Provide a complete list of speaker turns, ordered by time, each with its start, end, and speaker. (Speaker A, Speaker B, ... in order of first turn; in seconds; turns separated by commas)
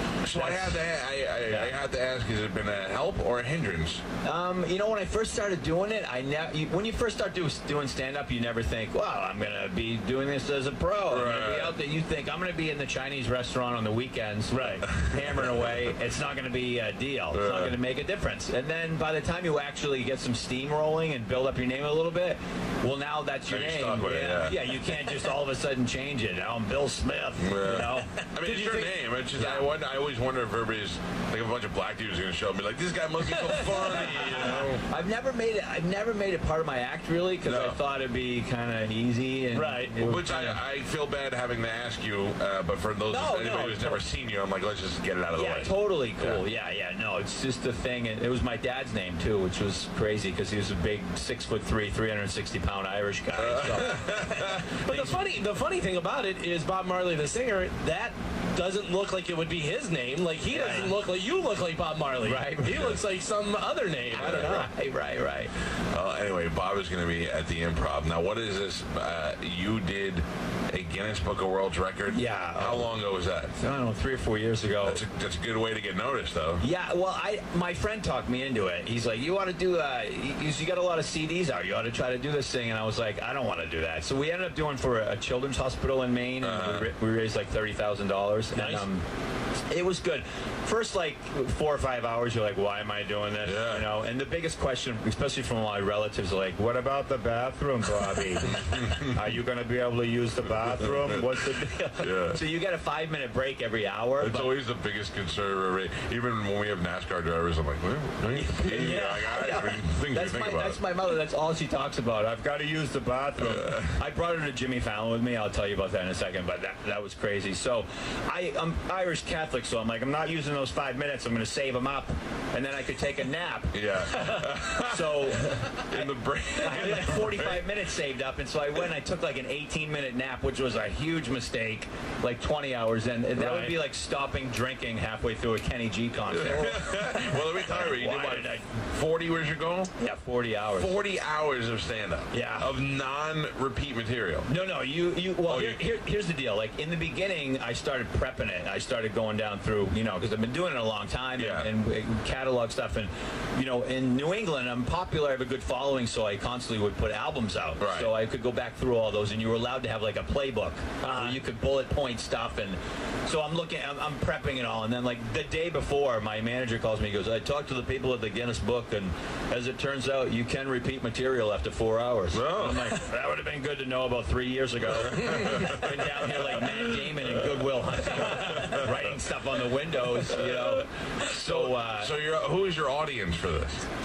Speaker A: 0.2-4.0, Speaker B: 0.3-0.8, Speaker B: 1.5-1.7, Speaker B: 4.2-28.2, Speaker A: 11.1-11.8, Speaker C: 14.5-14.9, Speaker A: 14.9-15.7, Speaker A: 17.3-17.8, Speaker A: 23.5-24.8, Speaker A: 27.4-34.9, Speaker C: 28.4-28.9, Speaker B: 29.4-29.7, Speaker C: 33.3-34.0, Speaker B: 33.6-40.6, Speaker A: 37.4-37.8, Speaker C: 39.5-40.0, Speaker A: 40.0-46.4, Speaker B: 43.1-44.0, Speaker B: 45.4-55.2, Speaker A: 53.3-54.7, Speaker C: 54.7-64.7, Speaker B: 60.5-60.9, Speaker B: 62.2-63.0, Speaker B: 64.1-65.5, Speaker A: 64.2-64.6, Speaker A: 65.9-73.5, Speaker B: 72.1-72.9, Speaker B: 73.5-75.0, Speaker A: 74.8-76.7, Speaker B: 76.6-89.0, Speaker A: 86.4-86.9, Speaker C: 88.5-88.9, Speaker B: 89.7-104.5, Speaker A: 93.4-93.9, Speaker A: 98.4-99.2, Speaker A: 100.5-101.5, Speaker A: 102.0-102.4, Speaker A: 104.2-110.8, Speaker B: 108.3-138.6, Speaker A: 113.4-114.0, Speaker A: 123.7-127.7, Speaker C: 133.3-133.8, Speaker A: 136.3-139.9, Speaker B: 140.0-141.0, Speaker A: 140.8-144.5, Speaker B: 142.3-142.7, Speaker B: 144.5-182.2, Speaker A: 145.4-145.8, Speaker A: 151.4-151.7, Speaker A: 157.8-158.1, Speaker C: 161.0-161.4, Speaker A: 172.3-172.9, Speaker A: 174.9-179.2, Speaker A: 180.1-183.8